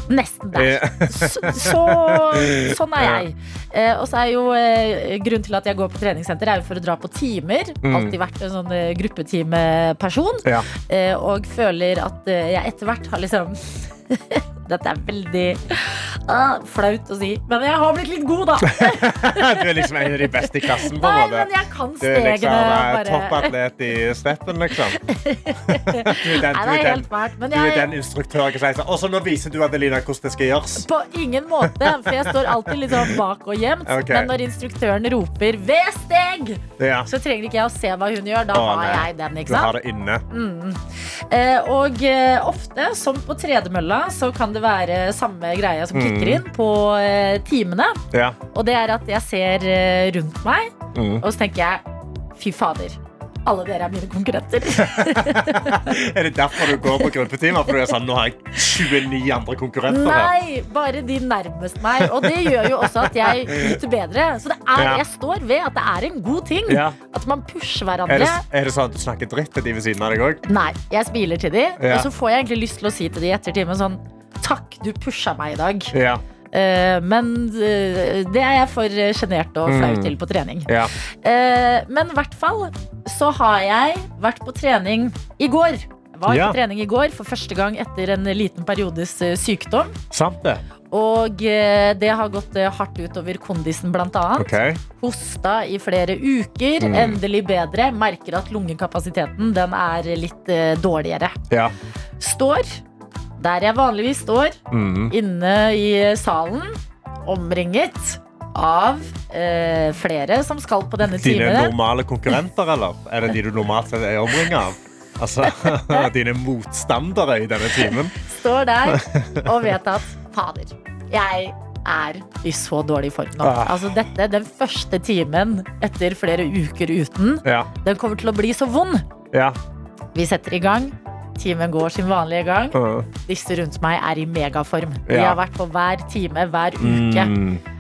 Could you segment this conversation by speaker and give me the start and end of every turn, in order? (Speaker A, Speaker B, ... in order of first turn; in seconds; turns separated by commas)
Speaker A: 0.1-23.5, Speaker B: 0.5-3.3, Speaker B: 7.8-8.2, Speaker B: 18.7-21.5, Speaker B: 22.0-25.0, Speaker A: 25.0-27.9, Speaker B: 25.7-30.9, Speaker A: 30.8-39.7, Speaker B: 31.6-33.1, Speaker B: 33.9-34.3, Speaker B: 36.8-37.1, Speaker B: 38.5-40.2, Speaker A: 40.3-48.0, Speaker B: 45.9-46.4, Speaker B: 48.1-48.4, Speaker A: 48.5-51.8, Speaker B: 50.9-51.2, Speaker A: 52.4-56.0, Speaker B: 54.8-60.3, Speaker A: 59.9-68.4, Speaker B: 62.0-63.8, Speaker B: 64.8-65.0, Speaker B: 66.7-67.0, Speaker B: 68.1-70.4, Speaker A: 70.5-75.9, Speaker B: 71.8-72.1, Speaker B: 75.9-76.2, Speaker A: 76.5-90.0, Speaker B: 79.7-80.2, Speaker B: 86.3-86.6, Speaker B: 90.1-90.6, Speaker A: 90.9-101.4, Speaker B: 94.4-94.8, Speaker B: 96.8-97.2, Speaker B: 101.5-101.8, Speaker A: 102.2-102.8, Speaker A: 103.4-104.6, Speaker B: 104.7-105.1, Speaker A: 105.1-111.7, Speaker B: 111.2-118.2, Speaker A: 115.6-116.1, Speaker A: 117.8-129.1, Speaker B: 118.9-119.6, Speaker B: 123.4-124.0, Speaker B: 129.3-129.6, Speaker A: 130.1-137.3, Speaker B: 132.7-133.1, Speaker B: 135.1-135.4, Speaker B: 136.8-137.6